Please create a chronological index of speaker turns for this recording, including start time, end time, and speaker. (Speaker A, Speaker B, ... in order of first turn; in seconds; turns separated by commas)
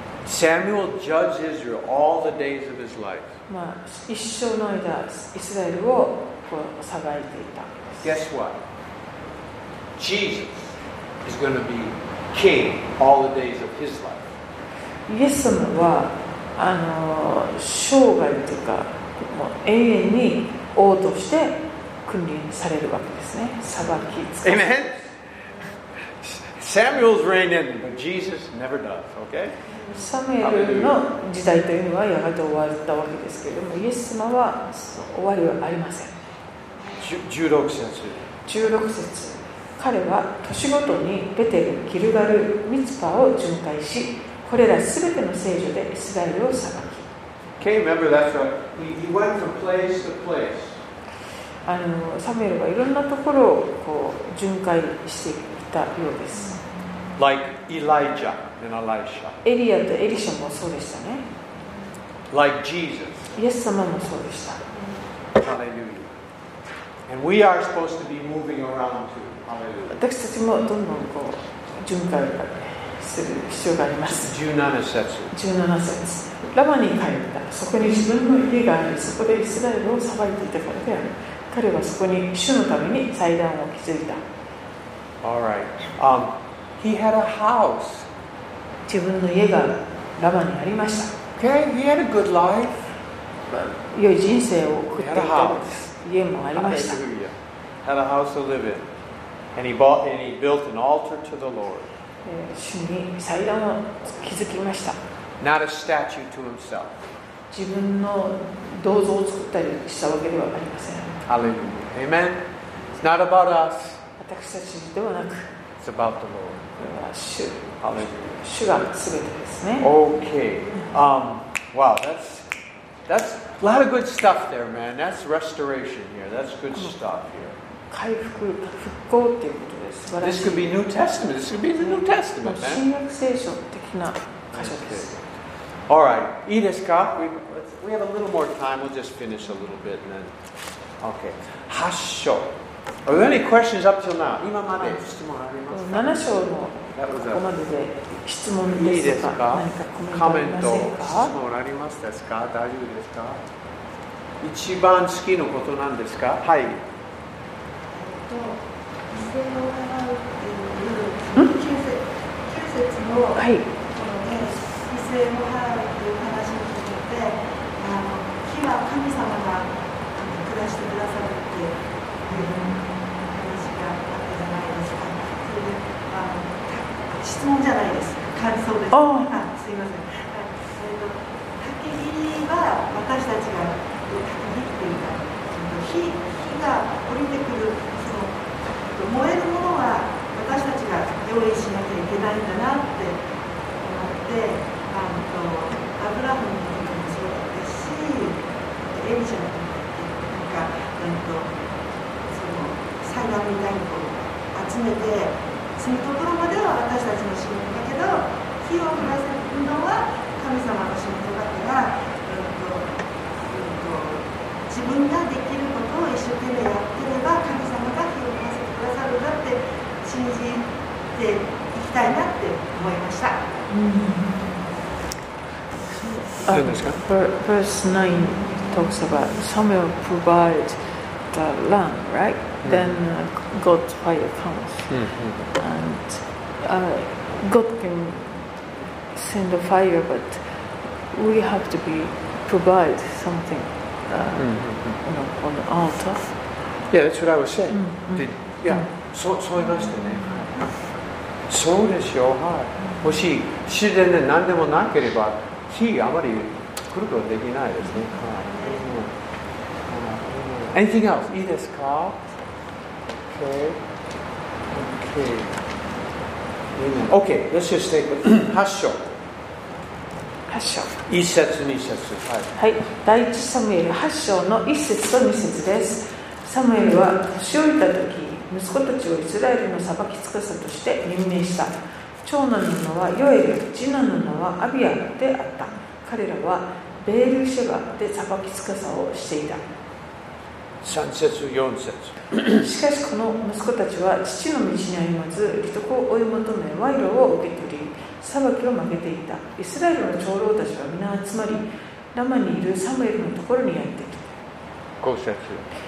Speaker A: 0.2-3.4, Speaker B: 3.5-8.1, Speaker A: 8.0-8.6, Speaker A: 10.0-10.7, Speaker A: 11.2-14.3, Speaker B: 15.1-24.8, Speaker A: 24.4-25.0, Speaker A: 26.2-29.6, Speaker B: 29.9-36.1, Speaker A: 30.4-31.0, Speaker A: 37.0-38.2, Speaker B: 38.5-47.1, Speaker A: 47.6-50.8, Speaker B: 51.6-56.6, Speaker A: 57.2-59.4, Speaker B: 59.4-61.2, Speaker A: 62.3-63.3, Speaker B: 63.4-64.6, Speaker A: 65.4-66.1, Speaker A: 67.1-70.0, Speaker B: 69.9-74.3, Speaker A: 74.1-75.3, Speaker B: 75.3-84.2, Speaker A: 85.2-88.1, Speaker B: 88.9-91.1, Speaker A: 91.4-92.9, Speaker B: 93.5-97.0, Speaker A: 94.9-95.8, Speaker A: 96.5-98.9, Speaker A: 99.6-101.9, Speaker B: 102.2-105.0, Speaker A: 105.4-107.0, Speaker B: 107.5-111.2, Speaker A: 111.3-112.4, Speaker A: 113.0-114.0, Speaker B: 114.2-115.5, Speaker A: 115.8-116.7, Speaker B: 116.8-119.9, Speaker A: 117.8-118.4, Speaker A: 119.8-122.5, Speaker A: 123.1-127.5, Speaker B: 127.9-130.7, Speaker A: 130.2-132.8, Speaker B: 131.8-135.1, Speaker A: 134.5-135.2, Speaker A: 135.9-140.3, Speaker A: 141.0-142.5, Speaker A: 143.1-146.3, Speaker B: 145.7-151.3, Speaker A: 146.9-147.4, Speaker A: 148.7-153.4, Speaker A: 154.4-156.8, Speaker C: 157.9-188.4, Speaker B: 163.4-163.7, Speaker B: 178.9-179.4, Speaker C: 188.9-193.2, Speaker C: 193.8-198.4, Speaker C: 198.9-201.5, Speaker C: 202.3-223.5, Speaker B: 223.7-224.4, Speaker C: 226.0-226.3, Speaker B: 226.4-230.8, Speaker A: 226.5-227.0, Speaker B: 231.3-234.9, Speaker A: 232.6-233.0, Speaker A: 234.9-235.5, Speaker B: 235.5-238.5, Speaker B: 239.1-240.5, Speaker B: 241.1-246.3, Speaker A: 244.4-245.0, Speaker A: 246.9-250.7, Speaker B: 247.7-248.9, Speaker A: 251.5-259.1, Speaker A: 259.9-262.2, Speaker A: 263.2-263.8, Speaker A: 264.7-265.6, Speaker A: 266.7-269.1, Speaker B: 270.5-270.9, Speaker A: 271.1-272.6, Speaker B: 272.6-289.6, Speaker A: 290.8-292.7, Speaker B: 292.5-304.4, Speaker A: 305.0-305.7